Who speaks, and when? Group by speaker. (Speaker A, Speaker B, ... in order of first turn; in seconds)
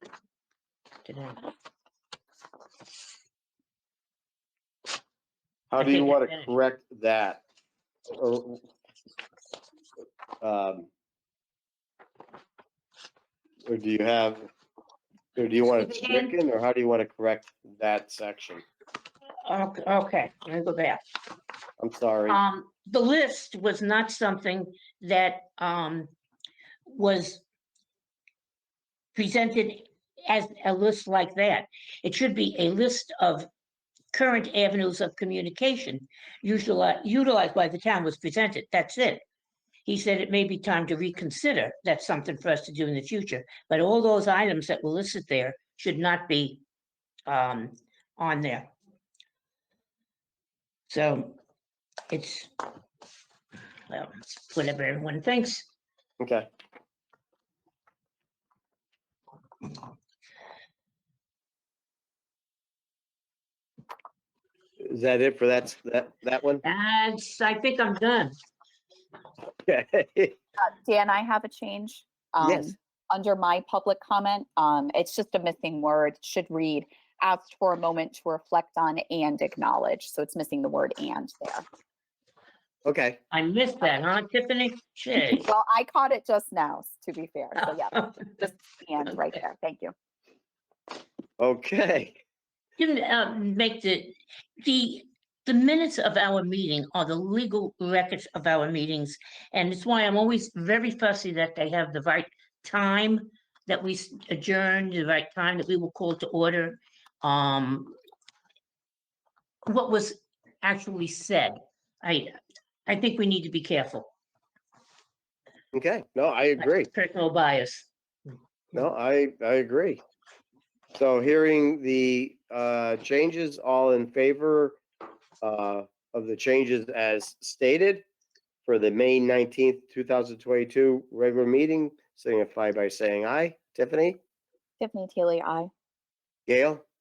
Speaker A: 1.1-1.4, 5.8-6.5, 15.7-16.4, 19.4-21.0, 22.3-26.1, 26.9-27.4, 29.1-33.5, 34.1-39.2, 39.9-46.6, 47.3-48.7, 50.9-51.4, 52.1-52.5, 53.9-55.7, 66.6-68.3, 83.3-85.5, 92.8-108.0, 109.7-114.1, 116.6-117.9
Speaker B: 5.7-7.4, 8.1-8.6, 10.4-10.9, 13.7-14.5, 15.4-18.6, 21.8-22.4, 56.2-56.5, 64.8-66.6, 69.7-70.4, 72.4-72.7, 82.8-83.2, 91.4-92.2, 115.7-116.9, 118.7-120.0, 120.9-124.8, 125.4-128.1, 128.7-134.2, 136.5-136.8
Speaker C: 70.6-81.6, 85.3-89.9, 134.8-135.7